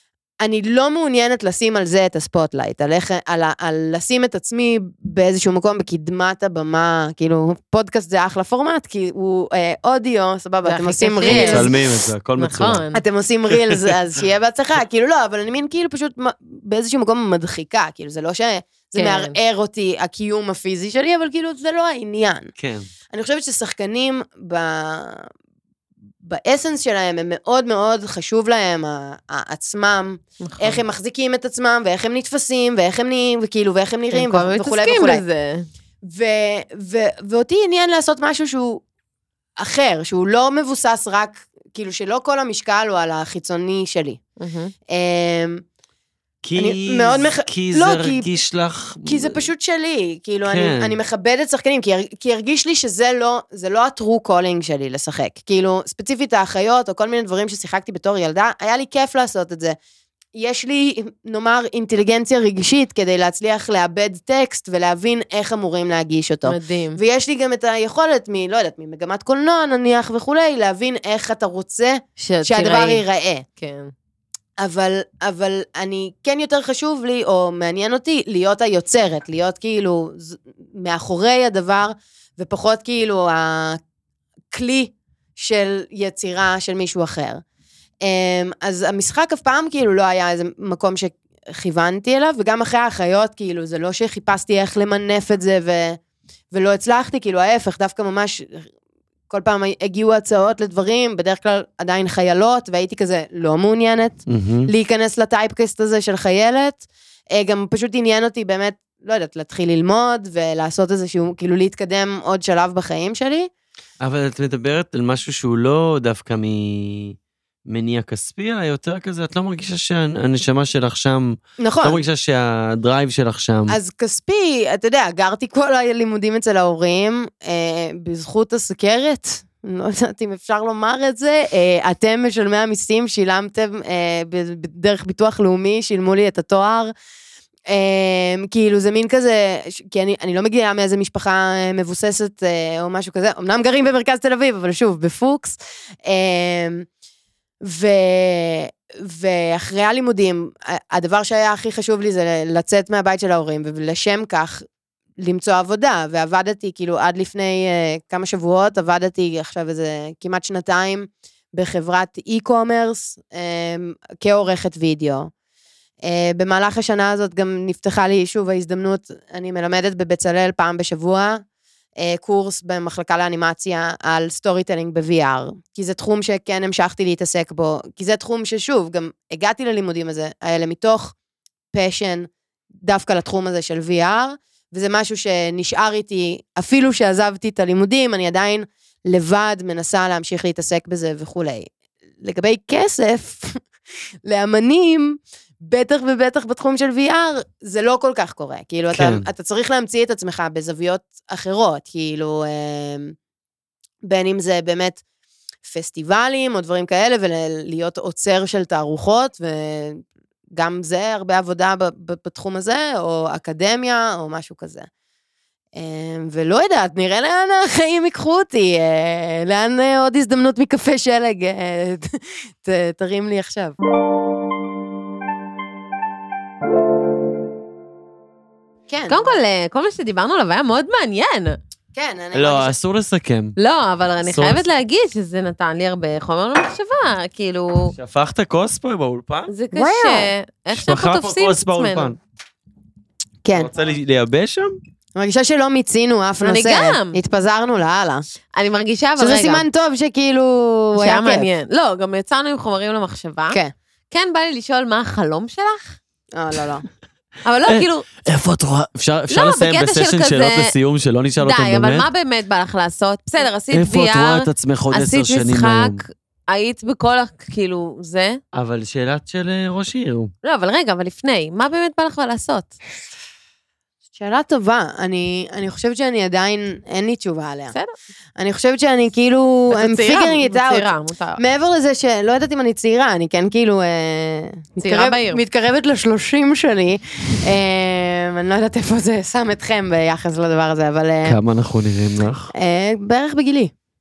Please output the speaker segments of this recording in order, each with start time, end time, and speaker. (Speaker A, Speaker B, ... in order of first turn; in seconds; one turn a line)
Speaker A: 0.4-11.7
Speaker B: 10.6-11.7
Speaker C: 11.2-12.8
Speaker B: 12.4-13.0
Speaker A: 12.9-22.5
Speaker B: 18.9-19.4
Speaker C: 22.6-22.9
Speaker A: 23.1-25.3
Speaker A: 26.2-35.2
Speaker B: 30.4-30.8
Speaker B: 34.1-35.7
Speaker A: 36.0-38.8
Speaker A: 39.6-44.2
Speaker B: 44.4-44.7
Speaker A: 44.9-45.6
Speaker C: 46.4-49.5
Speaker A: 46.5-48.3
Speaker A: 49.0-59.8
Speaker C: 50.4-51.0
Speaker A: 60.3-73.4
Speaker B: 66.5-67.0
Speaker B: 72.2-73.0
Speaker B: 73.6-73.9
Speaker A: 74.6-83.8
Speaker A: 84.5-87.4
Speaker A: 88.0-96.0
Speaker A: 96.5-98.7
Speaker A: 99.3-113.5
Speaker C: 104.3-104.7
Speaker C: 114.0-117.2
Speaker C: 117.7-123.8
Speaker A: 121.6-122.0
Speaker A: 123.7-136.9
Speaker A: 137.7-146.8
Speaker A: 147.6-154.6
Speaker A: 155.2-165.3
Speaker A: 166.0-171.4
Speaker A: 172.0-181.1
Speaker A: 181.7-182.3
Speaker A: 182.8-191.7
Speaker A: 192.2-193.6
Speaker A: 194.2-203.1
Speaker C: 198.9-199.3
Speaker A: 204.0-205.0
Speaker A: 205.6-214.9
Speaker A: 215.8-223.8
Speaker A: 228.9-229.3
Speaker B: 229.1-231.6
Speaker A: 231.9-232.7
Speaker C: 232.3-233.6
Speaker B: 233.6-237.9
Speaker C: 234.2-234.6
Speaker C: 237.9-239.5
Speaker B: 239.5-242.2
Speaker A: 239.7-240.3
Speaker C: 240.7-242.2
Speaker A: 243.4-243.7
Speaker C: 243.5-244.8
Speaker A: 245.1-248.2
Speaker B: 246.4-247.2
Speaker B: 248.5-249.6
Speaker A: 249.2-251.5
Speaker B: 251.0-253.6
Speaker B: 254.1-256.0
Speaker A: 256.3-256.8
Speaker B: 257.4-258.1
Speaker C: 257.7-262.1
Speaker B: 259.3-260.7
Speaker B: 261.4-268.4
Speaker C: 263.7-266.0
Speaker C: 268.5-270.3
Speaker B: 270.4-272.7
Speaker A: 274.2-277.7
Speaker A: 278.4-291.4
Speaker B: 279.7-281.4
Speaker B: 284.8-285.4
Speaker C: 291.2-292.5
Speaker A: 292.5-293.7